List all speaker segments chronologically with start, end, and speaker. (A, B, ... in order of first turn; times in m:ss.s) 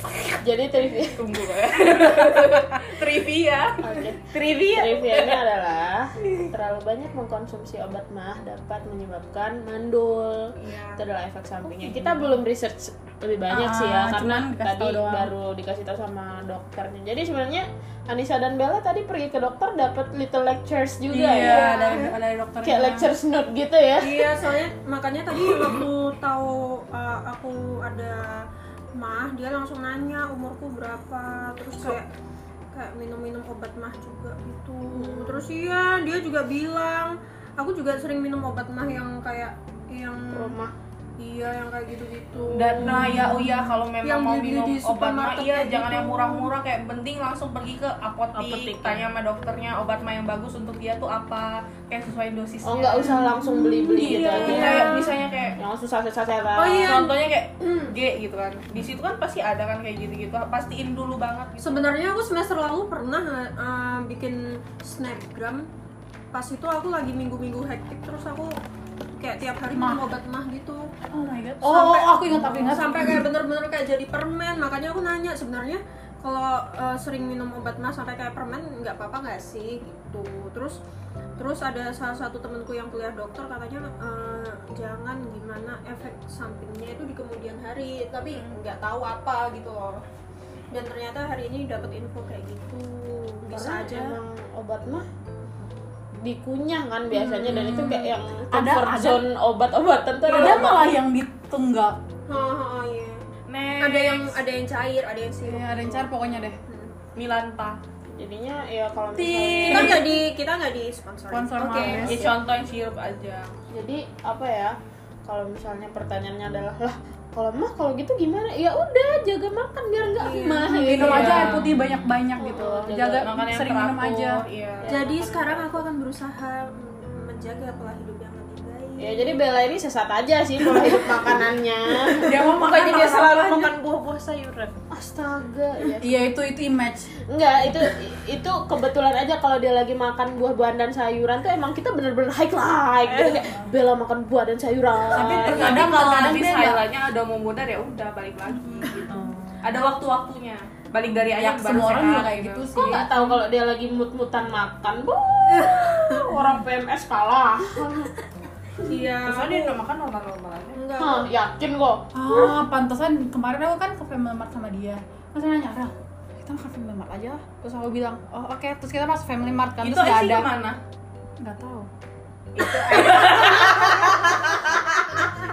0:00.2-0:01.2 A
0:01.1-0:04.0 B
0:01.9-0:02.3 A
0:03.8-0:21.9 A
0:04.3-0:05.0 C
0:10.6-0:11.0 B
0:11.7-0:12.3 B
0:13.5-0:15.3 D
0:21.1-0:23.1 D
0:21.4-0:22.1 E
0:22.6-0:24.4 A
0:24.0-0:32.1 E
0:32.7-0:40.5 E
0:34.9-0:35.4 A
0:40.3-0:40.7 A
0:41.2-0:43.2 E
0:42.5-0:53.2 B
0:42.8-0:43.8 D
0:44.0-0:46.5 E
0:48.4-0:49.0 A
0:48.5-0:49.0 C
0:52.6-0:55.0 A
0:53.0-0:54.8 D
0:54.0-0:55.6 B
0:54.3-0:55.1 E
0:55.6-0:57.1 A
0:56.6-0:57.9 E
0:56.7-1:01.9 B
1:01.6-1:05.7 E
1:06.3-1:08.6 E
1:09.1-1:10.9 E
1:09.7-1:10.0 D
1:11.1-1:13.2 D
1:11.6-1:20.8 E
1:21.4-1:30.0 E
1:30.7-1:34.2 E
1:33.4-1:35.0 A
1:36.2-1:40.9 A
1:37.4-1:39.2 D
1:40.2-1:40.9 E
1:40.3-1:42.0 D
1:42.3-1:43.2 E
1:43.5-1:44.4 B
1:43.8-1:47.0 E
1:45.4-1:46.6 D
1:47.1-1:47.8 B
1:48.1-1:50.1 A
1:49.1-1:50.1 B
1:49.6-1:52.1 E
1:51.3-1:52.2 D
1:51.7-1:53.5 B
1:53.7-2:01.7 A
2:00.2-2:01.5 E
2:00.9-2:04.4 D
2:01.0-2:01.7 B
2:02.4-2:03.3 A
2:03.2-2:05.0 B
2:04.8-2:05.8 A
2:04.8-2:09.4 E
2:09.0-2:12.5 A
2:12.2-2:13.7 D
2:12.5-2:14.8 C
2:14.9-2:16.1 A
2:16.0-2:17.1 D
2:17.3-2:26.4 A
2:23.1-2:23.5 C
2:25.1-2:32.7 B
2:25.2-2:26.8 D
2:31.3-2:33.4 D
2:32.7-2:38.1 A
2:35.6-2:36.3 E
2:38.8-2:39.8 E
2:39.1-2:40.8 B
2:40.7-2:41.3 E
2:41.0-2:42.6 A
2:42.1-2:50.5 D
2:49.8-2:50.8 B
2:51.4-2:51.9 D
2:52.5-2:54.3 B